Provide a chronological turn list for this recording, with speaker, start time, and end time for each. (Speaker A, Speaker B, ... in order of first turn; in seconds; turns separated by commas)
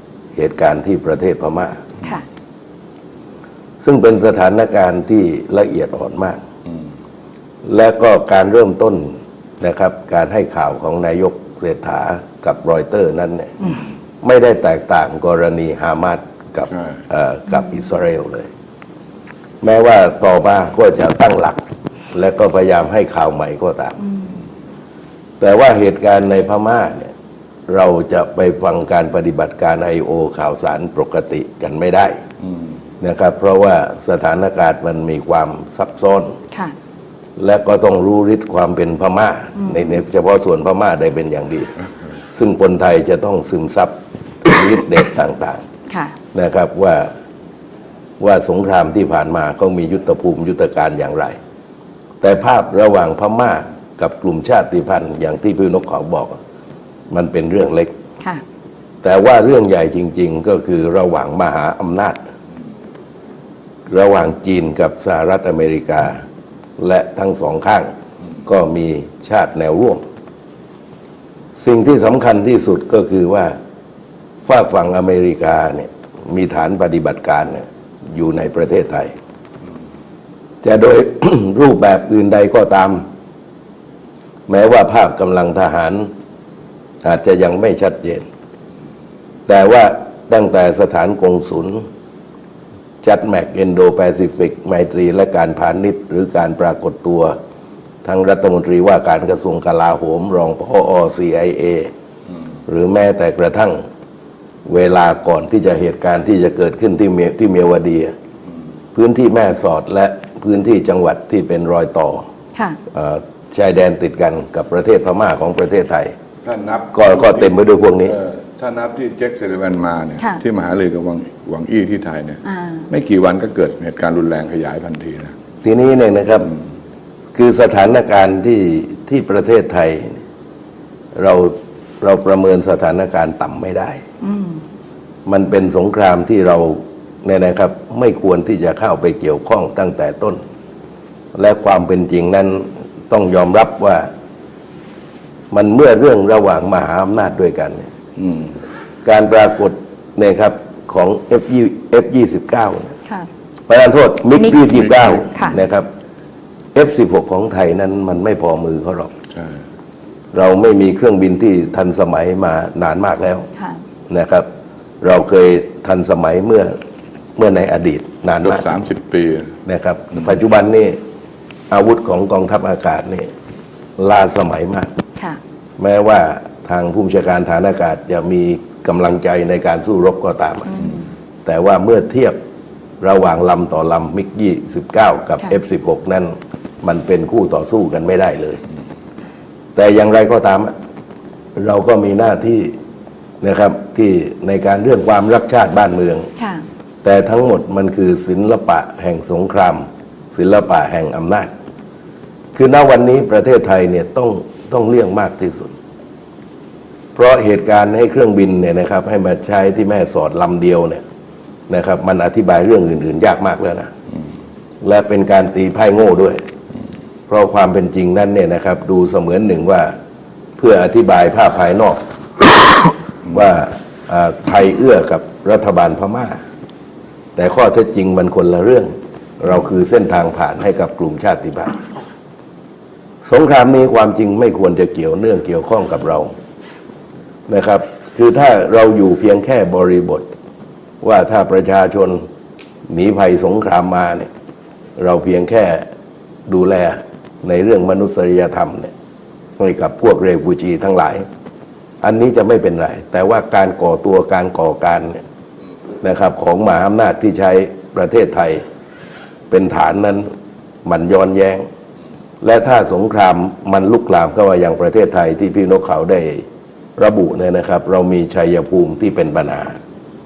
Speaker A: 0.4-1.9, Speaker A: 3.8-6.4, Speaker A: 7.7-13.6, Speaker A: 14.2-18.5, Speaker A: 19.6-21.6, Speaker A: 22.1-24.0, Speaker A: 25.4-27.1, Speaker A: 27.7-32.2, Speaker B: 32.4-32.7, Speaker A: 33.0-36.4, Speaker A: 37.4-41.7, Speaker A: 42.3-45.6, Speaker C: 45.9-46.1, Speaker A: 46.3-47.1, Speaker A: 48.2-51.4, Speaker A: 52.2-56.4, Speaker A: 57.1-57.9, Speaker A: 59.0-62.2, Speaker A: 63.9-66.2, Speaker A: 66.8-67.9, Speaker A: 68.5-70.0, Speaker A: 71.6-73.6, Speaker A: 74.5-79.1, Speaker A: 80.6-83.0, Speaker A: 84.5-86.1, Speaker A: 87.0-88.3, Speaker A: 89.5-91.9, Speaker A: 93.0-97.4, Speaker A: 98.0-101.9, Speaker A: 102.7-103.8, Speaker A: 104.7-108.1, Speaker A: 109.0-112.3, Speaker A: 112.9-116.1, Speaker B: 116.4-117.5, Speaker A: 116.9-118.2, Speaker B: 118.0-125.3, Speaker C: 122.5-122.9, Speaker A: 125.6-126.5, Speaker A: 127.3-130.2, Speaker A: 131.2-134.0, Speaker C: 134.2-134.6, Speaker A: 135.3-140.4, Speaker A: 141.3-144.1, Speaker A: 145.5-147.9, Speaker B: 148.2-148.6, Speaker A: 149.1-152.9, Speaker A: 153.7-155.9, Speaker B: 154.7-155.2, Speaker A: 156.8-159.1, Speaker B: 159.3-159.6, Speaker A: 160.3-163.5, Speaker A: 164.1-164.5, Speaker A: 165.0-166.8, Speaker A: 167.4-168.7, Speaker B: 168.4-169.5, Speaker A: 169.7-171.0, Speaker A: 171.7-173.3, Speaker A: 174.0-174.9, Speaker A: 175.8-180.7, Speaker C: 180.7-181.1, Speaker A: 181.4-182.4, Speaker A: 183.0-188.6, Speaker A: 189.8-190.7, Speaker A: 191.6-192.7, Speaker A: 193.4-196.3, Speaker C: 196.4-196.6, Speaker A: 197.0-201.5, Speaker A: 202.6-205.7, Speaker A: 207.2-211.0, Speaker A: 211.7-213.9, Speaker A: 214.8-216.4, Speaker A: 217.3-219.9, Speaker A: 220.6-222.0, Speaker A: 223.3-226.4, Speaker A: 227.4-231.8, Speaker A: 233.2-236.3, Speaker A: 237.5-240.2, Speaker A: 241.0-242.2, Speaker A: 242.9-244.3, Speaker A: 245.0-245.9, Speaker A: 246.5-248.9, Speaker A: 249.6-251.3, Speaker A: 252.0-255.2, Speaker A: 256.0-258.6, Speaker A: 259.5-260.3, Speaker A: 260.9-261.7, Speaker A: 262.4-266.4, Speaker A: 267.0-269.8